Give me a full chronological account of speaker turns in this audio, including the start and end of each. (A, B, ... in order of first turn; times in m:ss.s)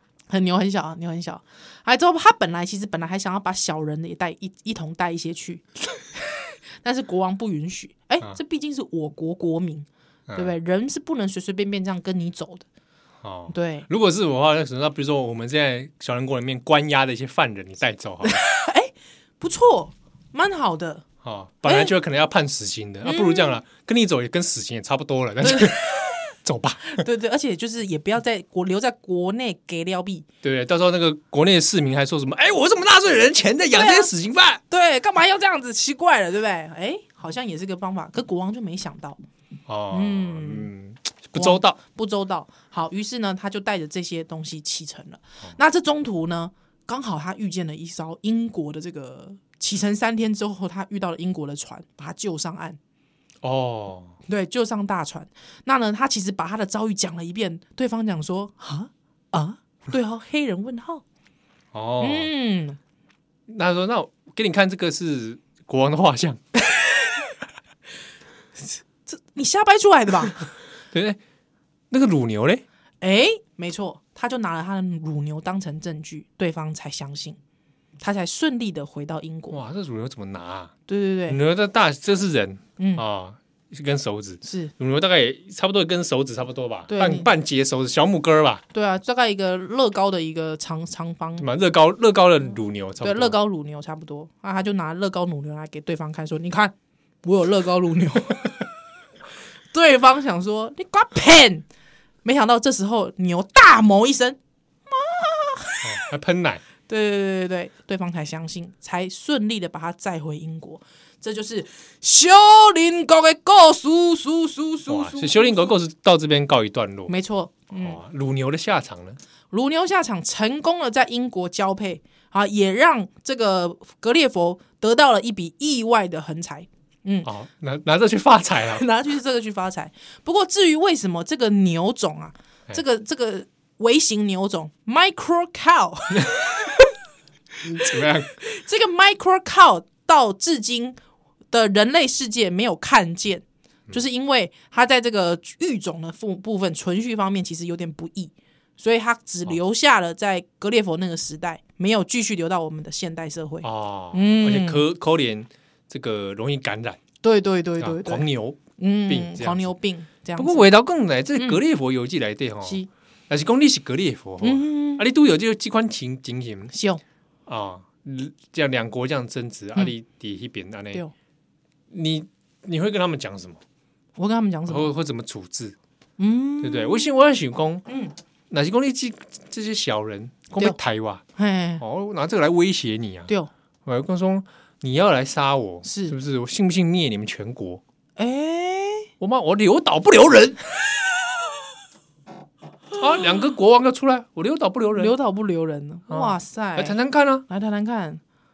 0:00.3-0:05.6 A
0:06.2-0:12.7 A
0:10.3-0:10.5 B
0:13.2-0:18.4 B
0:13.5-0:13.9 A
0:18.2-0:21.0 A
0:21.2-0:27.0 B
0:21.6-0:21.9 A
0:23.0-0:23.6 A
0:25.4-0:26.2 A
0:26.9-0:30.3 A
0:30.4-0:34.6 B
0:33.7-0:34.1 A
0:34.7-0:39.2 A
0:39.7-0:41.8 B
0:39.9-0:40.7 A
0:41.4-0:52.8 A
0:53.4-0:54.2 B
0:54.3-1:01.0 A
1:01.7-1:02.3 B
1:02.0-1:02.8 A
1:03.5-1:06.4 B
1:09.1-1:10.5 A
1:10.9-1:11.2 B
1:11.9-1:12.6 B
1:13.0-1:17.4 A
1:18.0-1:19.6 A
1:19.5-1:20.7 B
1:20.9-1:21.4 A
1:21.3-1:28.6 B
1:22.8-1:23.0 A
1:24.4-1:24.7 A
1:26.9-1:27.3 A
1:28.7-1:31.5 A
1:31.4-1:33.4 B
1:33.0-1:36.7 A
1:37.2-1:38.6 A
1:39.7-1:41.7 A
1:42.2-1:45.9 A
1:45.8-1:46.6 B
1:46.9-1:55.8 A
1:54.9-1:57.1 B
1:57.1-1:58.0 A
1:57.7-1:59.2 B
1:59.5-2:07.3 A
2:07.2-2:08.8 B
2:08.7-2:16.9 A
2:17.6-2:18.3 B
2:17.7-2:21.0 A
2:21.5-2:34.9 A
2:33.6-2:37.0 B
2:37.2-2:38.2 A
2:37.8-2:39.7 B
2:38.8-2:40.7 A
2:40.4-2:46.7 B
2:42.6-2:42.9 A
2:44.4-2:45.1 A
2:46.7-2:47.0 A
2:47.5-2:51.0 B
2:51.9-2:53.6 B
2:54.2-2:54.9 A
2:54.7-2:55.8 B
2:56.2-2:57.1 A
2:56.6-2:57.8 B
2:57.9-2:58.1 A
2:58.5-3:01.2 B
3:01.4-3:01.8 A
3:01.8-3:03.3 B
3:03.9-3:07.8 B
3:05.8-3:06.2 A
3:08.2-3:09.1 A
3:09.2-3:10.6 B
3:13.0-3:15.1 B
3:14.9-3:18.2 A
3:16.1-3:17.4 B